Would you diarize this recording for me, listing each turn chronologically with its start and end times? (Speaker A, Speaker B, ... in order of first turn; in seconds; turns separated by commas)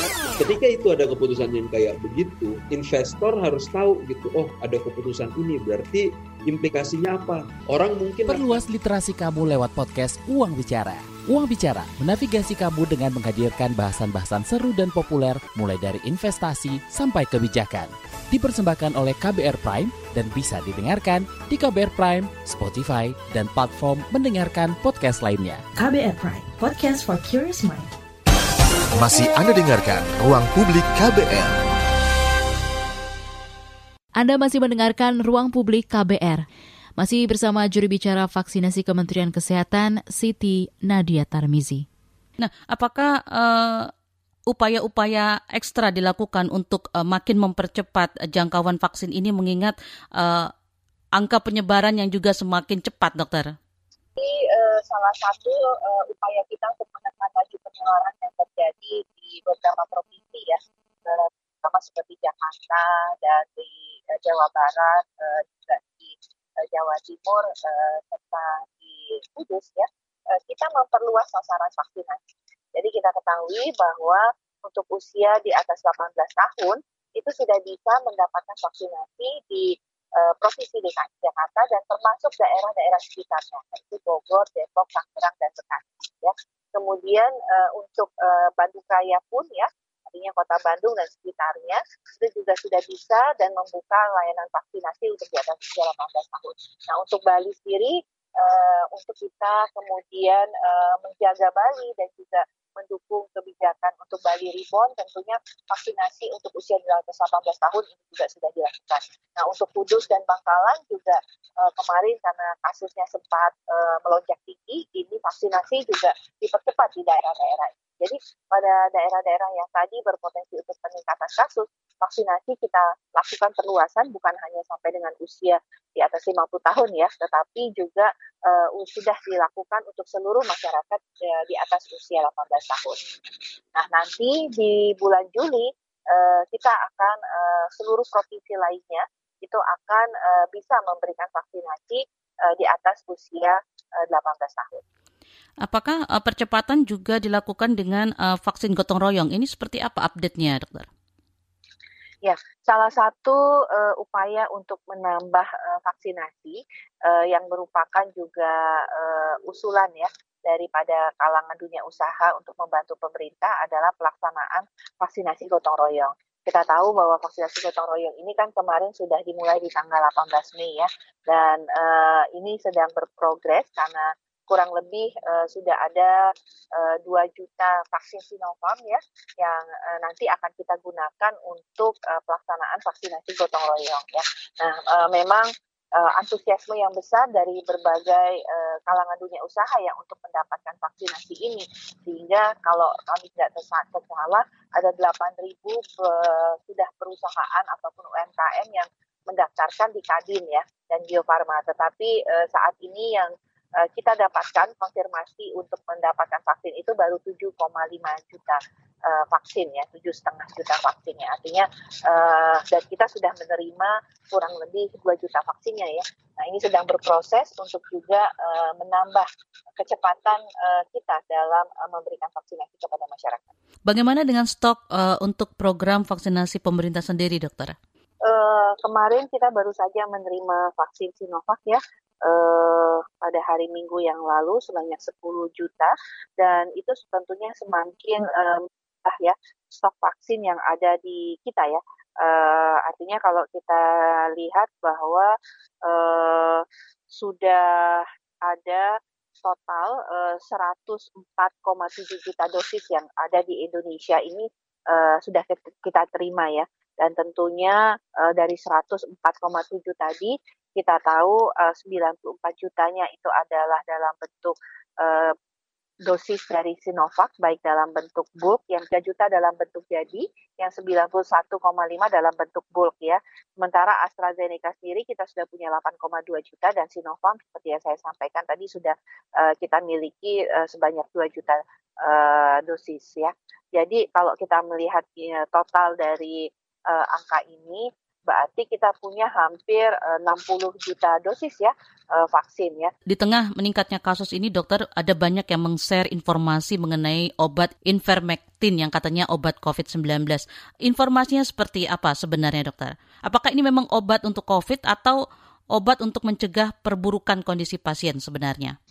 Speaker A: 0.4-8.7, Speaker B: 8.3-25.6, Speaker C: 25.8-27.9, Speaker D: 28.9-31.6, Speaker E: 34.2-36.5, Speaker E: 37.0-41.9, Speaker F: 42.4-43.9, Speaker F: 44.5-50.5, Speaker F: 51.2-53.5, Speaker G: 54.2-72.2, Speaker G: 72.8-133.0, Speaker G: 133.8-144.8, Speaker F: 145.6-150.9, Speaker G: 152.2-176.2, Speaker G: 176.8-219.3, Speaker G: 219.8-223.5, Speaker F: 223.9-227.8, Speaker G: 228.2-245.3, Speaker G: 245.9-248.9, Speaker G: 249.4-265.4, Speaker G: 266.1-292.9, Speaker F: 293.1-305.2, Speaker F: 305.8-308.8